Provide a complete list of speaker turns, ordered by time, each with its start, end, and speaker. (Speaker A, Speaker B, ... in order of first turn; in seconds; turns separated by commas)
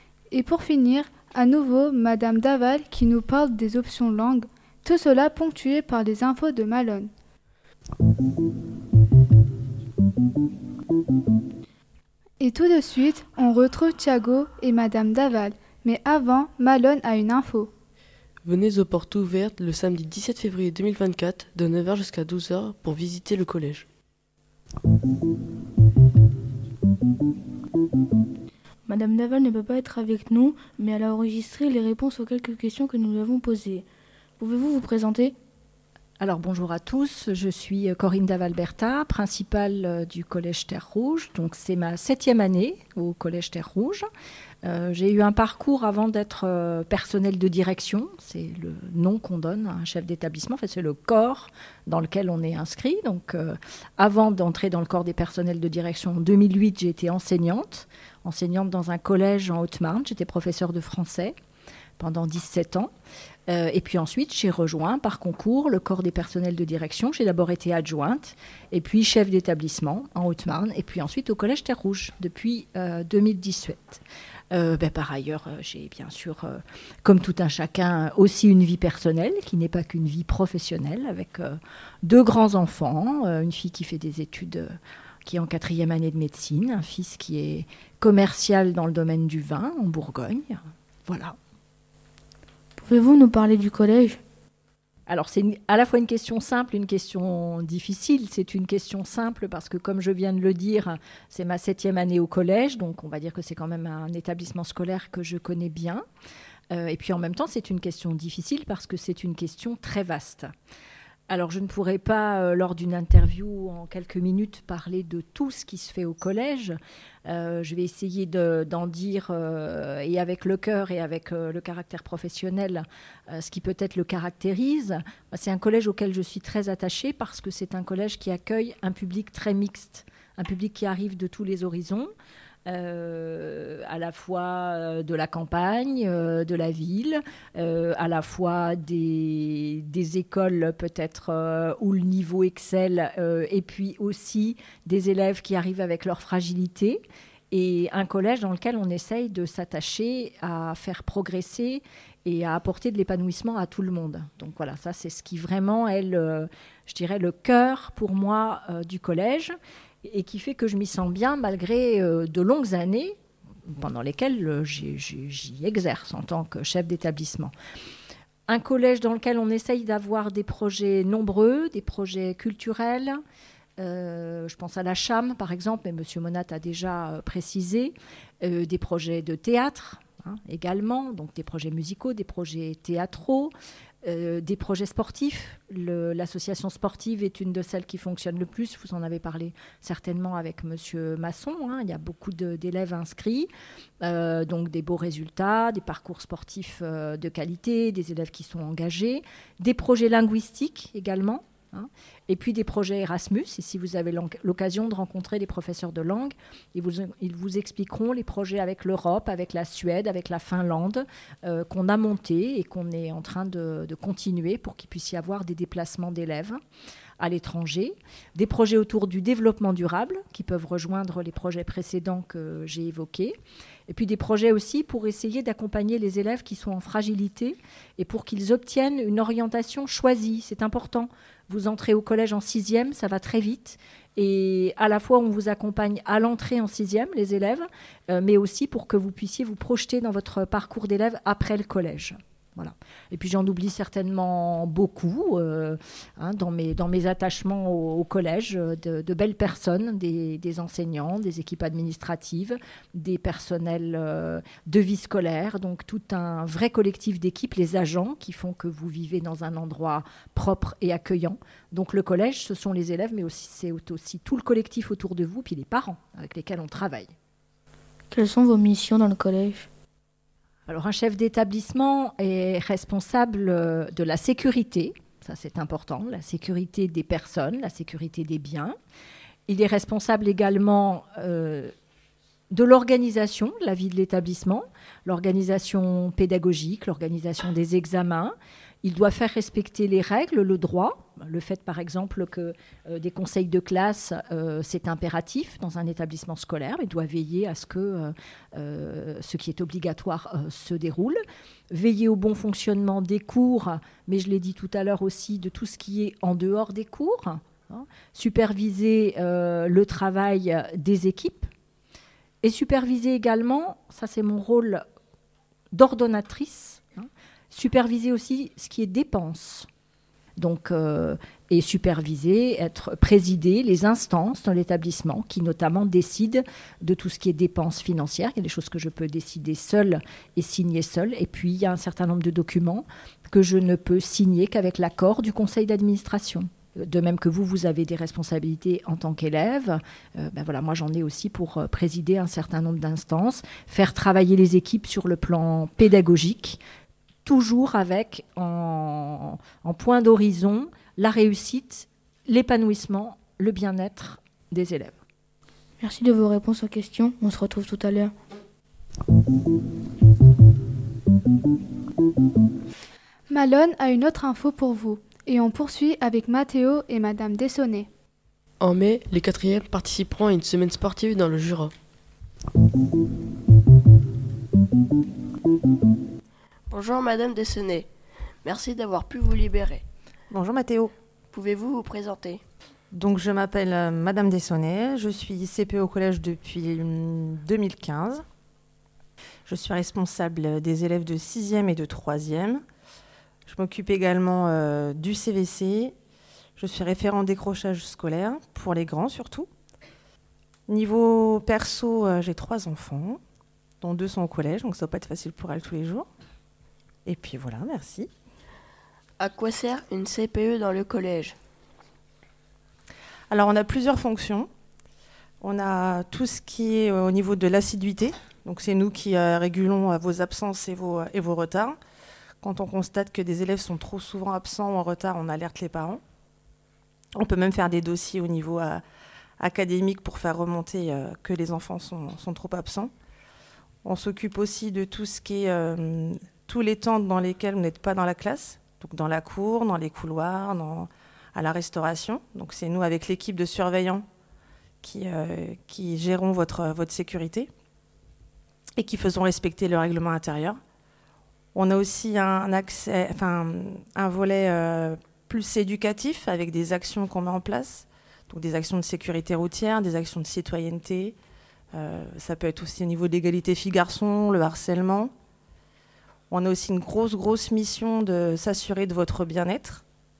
Speaker A: 0.3-7.1, Speaker A: 12.4-17.7, Speaker B: 18.4-23.9, Speaker C: 28.9-33.9, Speaker C: 34.4-35.3, Speaker D: 36.2-44.0, Speaker D: 44.6-61.4, Speaker D: 62.0-62.9, Speaker D: 63.5-91.3, Speaker C: 92.8-94.2, Speaker D: 95.1-106.0, Speaker D: 106.7-110.5, Speaker D: 111.3-132.1, Speaker D: 132.7-159.5, Speaker D: 160.0-167.5, Speaker D: 168.5-173.2, Speaker D: 173.8-193.5, Speaker D: 194.0-216.6, Speaker D: 217.2-223.4, Speaker D: 223.9-267.1, Speaker C: 268.1-269.7, Speaker D: 270.7-278.8, Speaker D: 279.5-281.7, Speaker D: 282.5-311.5, Speaker D: 312.4-314.8, Speaker D: 315.7-319.7, Speaker D: 320.4-346.6, Speaker D: 347.2-354.9, Speaker C: 355.8-358.1, Speaker A: 363.3-367.9, Speaker B: 368.6-371.7, Speaker E: 376.7-377.9, Speaker E: 378.4-379.8, Speaker F: 380.3-380.9, Speaker E: 381.3-382.4, Speaker F: 382.9-388.2, Speaker F: 389.5-392.6, Speaker F: 393.5-395.9, Speaker F: 396.6-399.5, Speaker F: 400.7-403.2, Speaker F: 403.8-406.1, Speaker F: 407.1-408.1, Speaker E: 409.2-411.4, Speaker F: 413.3-414.5, Speaker F: 415.4-421.8, Speaker F: 422.4-426.0, Speaker F: 427.1-428.8, Speaker F: 429.4-432.9, Speaker F: 433.8-444.1, Speaker F: 444.8-447.5, Speaker F: 448.8-450.6, Speaker F: 451.5-461.1, Speaker F: 461.7-465.1, Speaker F: 466.3-469.8